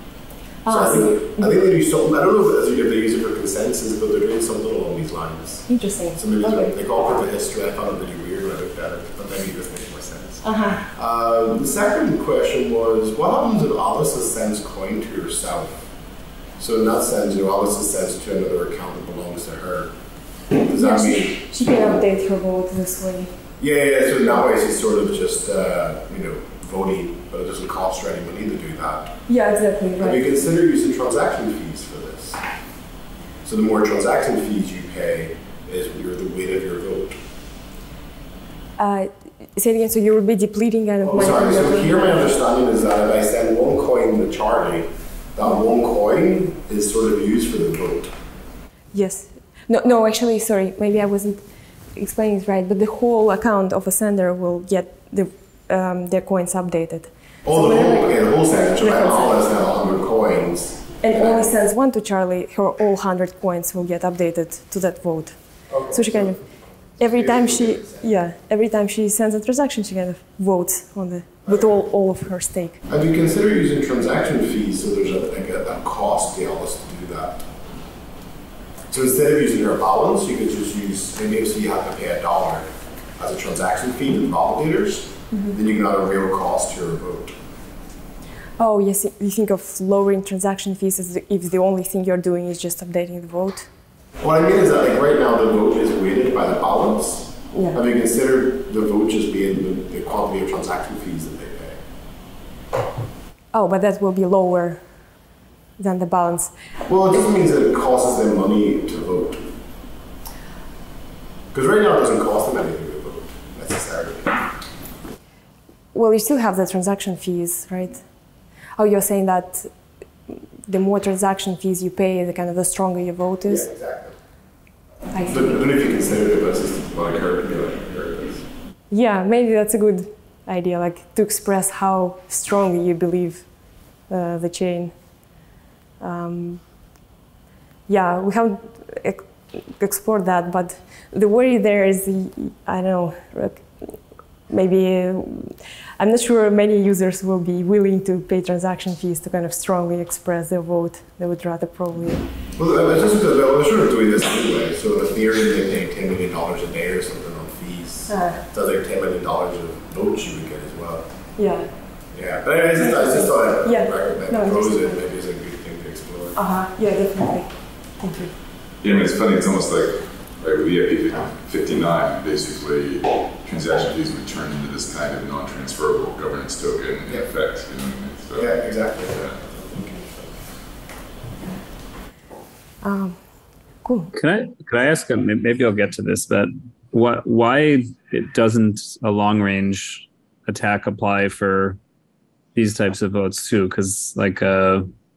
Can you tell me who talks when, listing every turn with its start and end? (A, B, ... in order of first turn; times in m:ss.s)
0:00.6-0:01.5 A
0:00.7-0:15.8 B
0:05.7-0:06.7 A
0:10.4-0:10.8 A
0:16.6-0:19.9 B
0:20.6-0:21.4 B
0:20.8-0:23.3 A
0:23.6-0:29.2 B
0:29.3-0:30.2 A
0:30.0-0:32.4 B
0:33.4-0:37.2 B
0:38.8-0:42.2 A
0:41.0-0:48.1 B
0:48.9-0:51.4 A
0:52.0-0:59.4 A
0:57.4-1:01.5 B
1:01.0-1:05.4 A
1:05.7-1:06.3 B
1:05.9-1:06.4 A
1:07.0-1:12.8 A
1:07.0-1:08.0 B
1:12.9-1:17.5 B
1:18.9-1:27.4 B
1:28.6-1:33.7 A
1:34.2-1:41.8 B
1:37.5-1:37.8 A
1:43.5-1:44.8 A
1:45.8-1:46.5 A
1:46.9-1:49.5 B
1:51.5-1:54.5 B
1:55.9-1:58.0 A
1:58.8-1:59.7 A
2:00.7-2:03.7 A
2:03.4-2:04.2 B
2:05.1-2:05.5 A
2:05.2-2:08.4 B
2:08.9-2:13.5 A
2:14.1-2:14.9 A
2:16.0-2:16.6 A
2:17.9-2:23.6 A
2:24.5-2:32.2 A
2:32.6-2:41.0 B
2:38.1-2:38.4 A
2:41.4-2:41.7 A
2:42.1-2:46.4 B
2:42.8-2:45.0 A
2:46.4-2:48.3 A
2:48.8-2:58.5 C
2:58.3-3:00.4 B
3:02.8-3:03.2 A
3:03.8-3:04.1 A
3:04.1-3:11.8 D
3:12.5-3:14.9 D